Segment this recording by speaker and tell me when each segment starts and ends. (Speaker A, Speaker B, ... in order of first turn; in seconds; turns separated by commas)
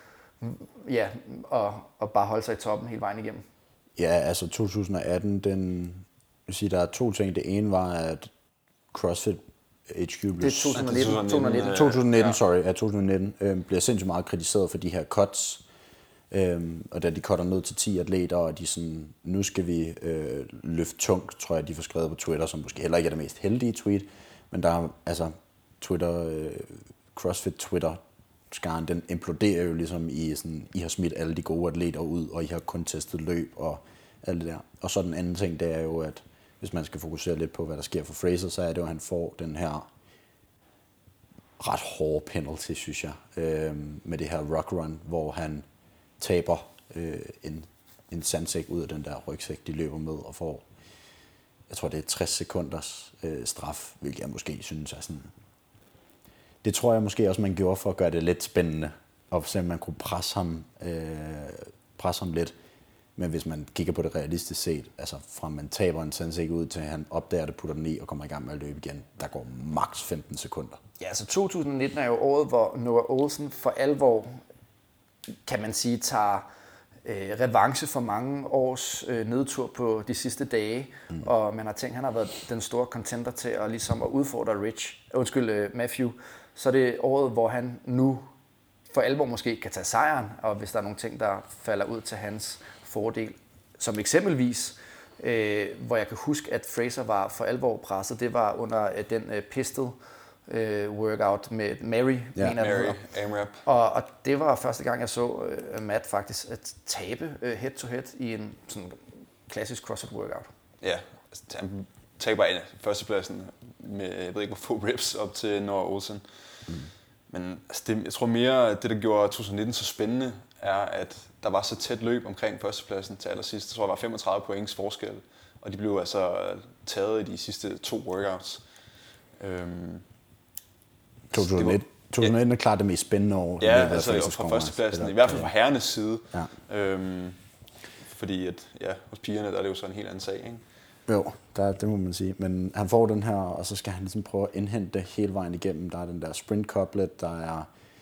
Speaker A: 0.4-3.4, Speaker B: 4.0-8.3, Speaker B: 8.9-15.6, Speaker A: 10.4-11.9, Speaker C: 10.7-12.4, Speaker B: 16.3-28.0, Speaker B: 28.5-39.9, Speaker B: 41.6-45.6, Speaker B: 46.2-50.6, Speaker B: 51.7-55.3, Speaker B: 56.6-62.5, Speaker B: 63.1-70.8, Speaker A: 71.0-74.4, Speaker A: 75.4-76.5, Speaker A: 77.0-88.3, Speaker A: 88.9-103.0, Speaker C: 102.5-103.6, Speaker A: 103.6-110.5, Speaker C: 110.8-116.7, Speaker C: 117.3-128.6, Speaker C: 129.4-130.0, Speaker C: 131.3-132.3, Speaker B: 131.3-135.5, Speaker C: 133.6-137.4, Speaker C: 138.0-140.6, Speaker B: 141.1-147.7